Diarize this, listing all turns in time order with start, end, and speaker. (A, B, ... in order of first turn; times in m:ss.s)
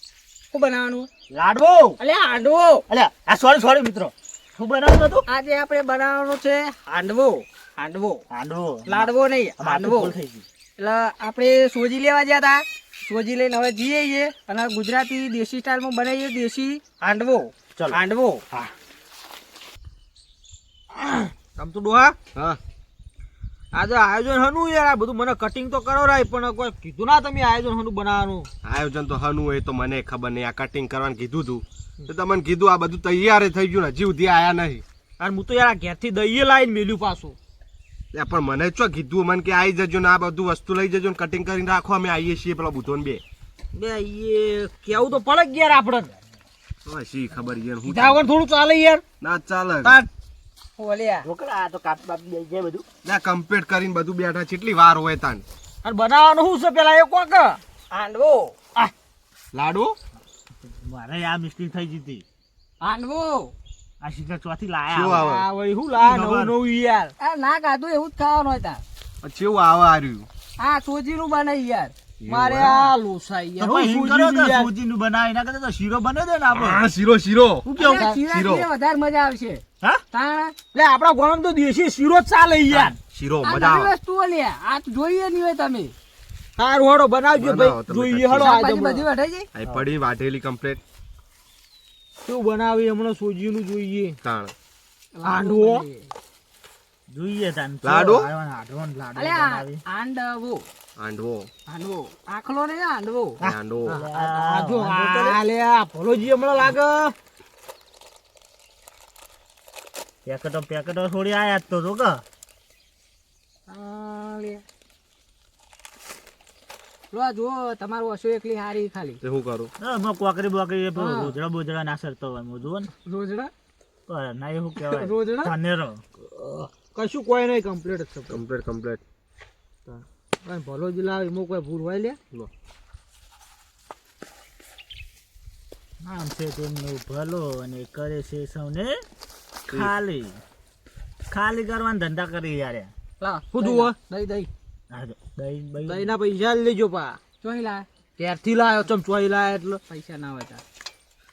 0:00.5-0:01.1 A
0:01.3-0:02.0 B
0:02.0-0:02.8 A
0:02.9-0:05.2 B
0:05.3-0:08.2 A
0:08.3-0:10.4 B
0:08.9-0:10.2 A
0:10.8-0:18.4 A
0:21.0-0:22.2 C
0:23.7-0:28.5 C
0:28.6-0:34.8 D
0:35.2-0:37.4 C
0:38.1-0:43.2 D
0:43.7-0:46.1 C
0:46.9-0:48.3 D
0:47.9-0:49.0 C
0:49.2-0:50.0 D
0:49.8-0:50.1 C
0:50.8-0:51.3 A
0:51.2-0:52.9 B
0:53.0-0:55.4 D
0:55.8-0:57.6 C
0:57.9-0:58.6 A
0:59.5-1:00.0 D
1:00.6-1:02.2 B
1:02.8-1:03.5 A
1:04.0-1:05.3 B
1:04.9-1:05.5 D
1:05.2-1:07.1 C
1:06.0-1:06.6 B
1:07.2-1:08.8 A
1:09.2-1:10.3 D
1:10.6-1:11.9 A
1:12.2-1:12.9 D
1:12.3-1:14.7 C
1:13.6-1:16.8 B
1:16.5-1:17.7 D
1:17.7-1:18.2 C
1:17.7-1:20.6 A
1:18.3-1:18.7 D
1:20.7-1:23.0 C
1:22.7-1:23.0 B
1:23.1-1:23.9 D
1:23.4-1:25.9 A
1:26.6-1:29.1 C
1:27.4-1:28.7 D
1:28.4-1:29.5 A
1:29.6-1:30.8 D
1:32.2-1:34.2 C
1:34.2-1:34.5 D
1:35.2-1:36.1 A
1:35.2-1:35.8 C
1:37.1-1:39.8 B
1:37.8-1:38.3 D
1:39.2-1:40.6 A
1:41.0-1:41.5 D
1:41.7-1:43.4 A
1:43.4-1:44.0 D
1:43.8-1:45.4 B
1:43.9-1:47.2 C
1:50.3-1:52.2 B
1:53.7-1:54.6 A
1:57.1-1:59.2 A
1:59.2-1:59.7 D
1:59.8-2:02.9 B
2:01.0-2:01.4 A
2:03.1-2:03.5 A
2:04.1-2:06.0 B
2:06.3-2:08.4 C
2:08.3-2:09.0 D
2:09.9-2:12.2 C
2:16.0-2:19.0 B
2:19.7-2:19.9 D
2:19.7-2:20.4 B
2:21.3-2:22.9 B
2:23.2-2:24.5 A
2:23.5-2:24.0 C
2:24.9-2:26.2 B
2:25.9-2:27.2 C
2:27.4-2:27.9 A
2:28.2-2:29.8 C
2:29.9-2:30.6 A